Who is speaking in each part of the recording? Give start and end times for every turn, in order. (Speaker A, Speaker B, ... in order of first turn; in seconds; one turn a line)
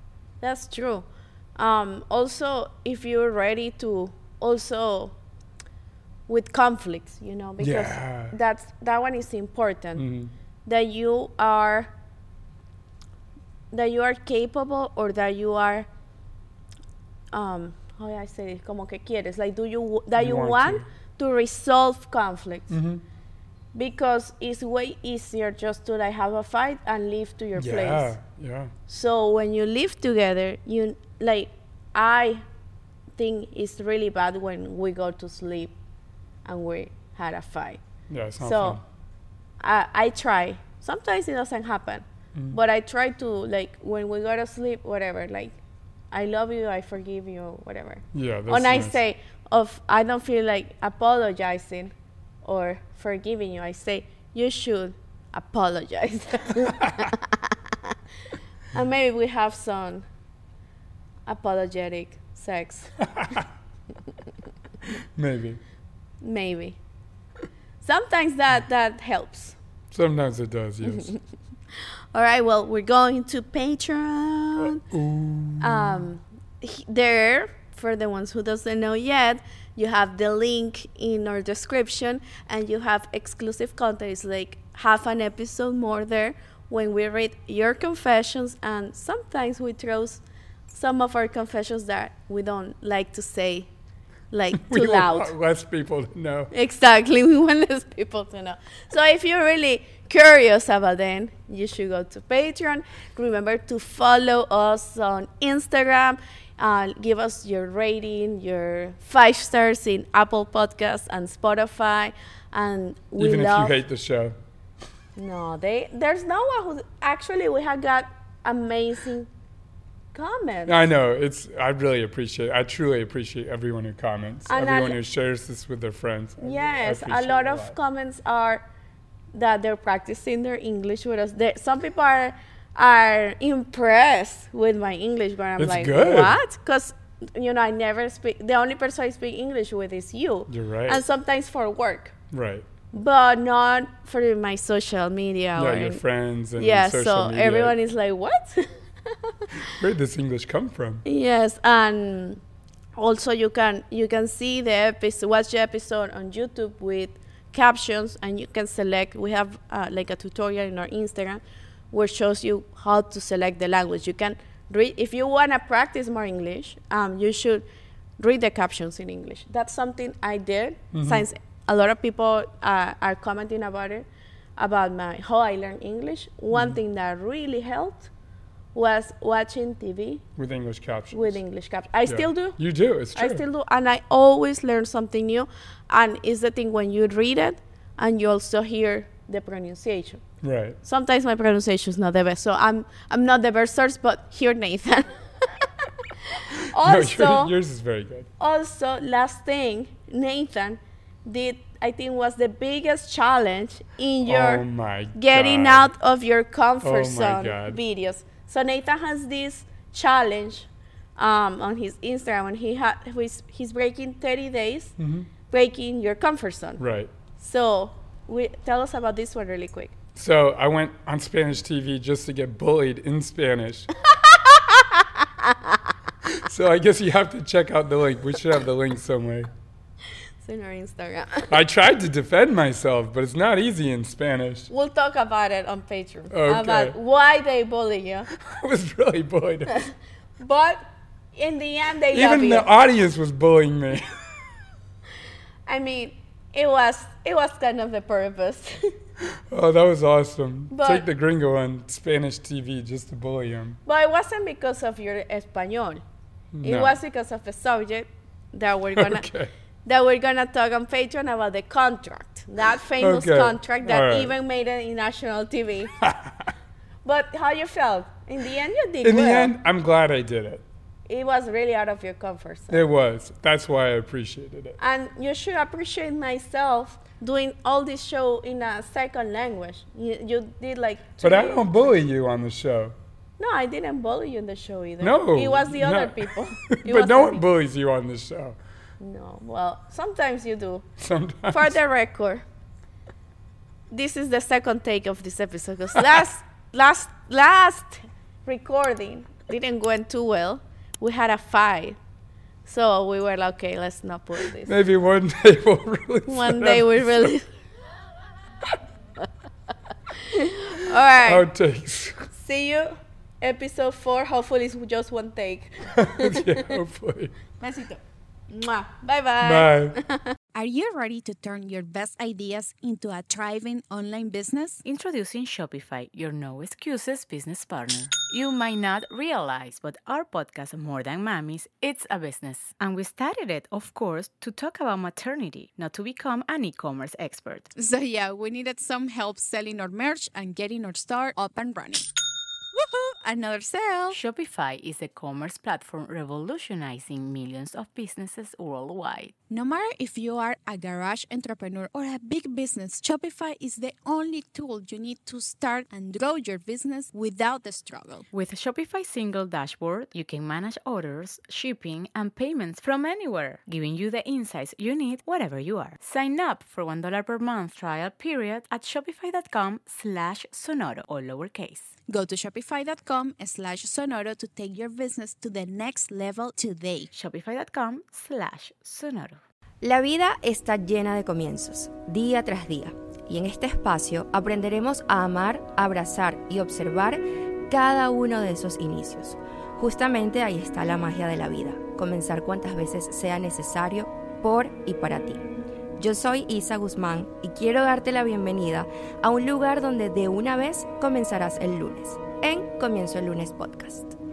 Speaker A: 0.4-5.1
Speaker A: 6.3-10.1
Speaker B: 7.6-8.3
Speaker B: 9.9-10.3
Speaker A: 10.7-11.9
Speaker A: 13.7-15.9
Speaker A: 17.3-22.8
Speaker B: 20.2-20.9
Speaker B: 22.7-23.0
Speaker A: 23.7-28.2
Speaker B: 27.6-28.7
Speaker A: 28.9-32.4
Speaker A: 33.2-35.7
Speaker A: 36.5-37.8
Speaker B: 38.1-38.8
Speaker A: 38.4-38.8
Speaker A: 39.6-45.6
Speaker A: 46.1-58.0
Speaker B: 48.1-49.0
Speaker A: 58.7-60.1
Speaker A: 61.3-62.9
Speaker B: 63.2-63.5
Speaker B: 65.1-65.6
Speaker A: 66.2-66.8
Speaker A: 67.8-69.6
Speaker B: 69.9-71.1
Speaker A: 70.8-71.2
Speaker A: 71.7-74.8
Speaker B: 74.6-76.1
Speaker A: 75.6-93.7
Speaker A: 94.3-95.3
Speaker B: 94.5-96.5
Speaker A: 96.5-113.8
Speaker B: 113.2-114.4
Speaker A: 115.2-119.3
Speaker A: 120.1-120.8
Speaker B: 120.7-127.8
Speaker A: 124.5-125.0
Speaker A: 126.4-128.6
Speaker A: 129.3-142.2
Speaker B: 135.6-136.4
Speaker B: 140.5-141.0
Speaker B: 142.3-142.7
Speaker A: 142.9-146.0
Speaker B: 145.6-147.8
Speaker A: 146.6-149.7
Speaker B: 149.7-151.0
Speaker A: 151.1-152.4
Speaker A: 153.0-167.7
Speaker A: 168.2-174.1
Speaker B: 170.9-171.2
Speaker A: 174.6-178.1
Speaker B: 176.5-176.8
Speaker A: 178.7-180.2
Speaker B: 180.4-181.4
Speaker A: 181.1-182.6
Speaker B: 182.1-183.4
Speaker A: 183.2-190.2
Speaker B: 190.4-190.8
Speaker A: 190.8-195.7
Speaker A: 196.3-197.5
Speaker B: 196.8-198.3
Speaker A: 198.4-214.9
Speaker B: 204.3-205.9
Speaker B: 206.8-207.8
Speaker B: 215.0-215.3
Speaker A: 215.5-216.8
Speaker B: 216.8-217.1
Speaker A: 217.3-219.9
Speaker B: 220.2-223.9
Speaker A: 224.1-225.8
Speaker B: 226.2-229.5
Speaker A: 230.4-231.6
Speaker B: 231.5-234.7
Speaker A: 234.7-238.3
Speaker B: 236.3-237.0
Speaker B: 238.3-239.8
Speaker A: 239.7-242.7
Speaker B: 242.1-244.1
Speaker A: 245.7-248.8
Speaker B: 249.5-253.8
Speaker A: 250.7-251.1
Speaker A: 253.9-256.0
Speaker B: 256.6-257.0
Speaker A: 256.6-259.3
Speaker B: 258.9-259.5
Speaker A: 259.9-265.9
Speaker B: 263.0-264.4
Speaker B: 266.0-266.5
Speaker A: 267.1-269.5
Speaker B: 269.0-270.6
Speaker A: 271.1-272.9
Speaker B: 272.7-274.8
Speaker A: 274.8-281.9
Speaker B: 281.2-282.9
Speaker A: 283.4-287.4
Speaker B: 285.0-288.6
Speaker A: 289.0-290.9
Speaker B: 291.0-291.8
Speaker A: 291.5-292.4
Speaker A: 293.9-302.0
Speaker A: 302.6-304.7
Speaker B: 304.6-307.3
Speaker A: 306.3-307.5
Speaker A: 310.1-311.4
Speaker B: 311.2-312.3
Speaker A: 312.4-316.8
Speaker B: 315.9-317.4
Speaker A: 317.6-320.4
Speaker B: 319.4-320.0
Speaker C: 320.5-324.8
Speaker D: 324.9-337.7
Speaker C: 337.8-342.1
Speaker C: 342.7-344.2
Speaker D: 344.1-349.4
Speaker C: 349.5-358.3
Speaker D: 358.3-371.9
Speaker C: 372.1-377.1
Speaker D: 377.1-379.4
Speaker E: 379.8-395.4
Speaker E: 396.0-404.2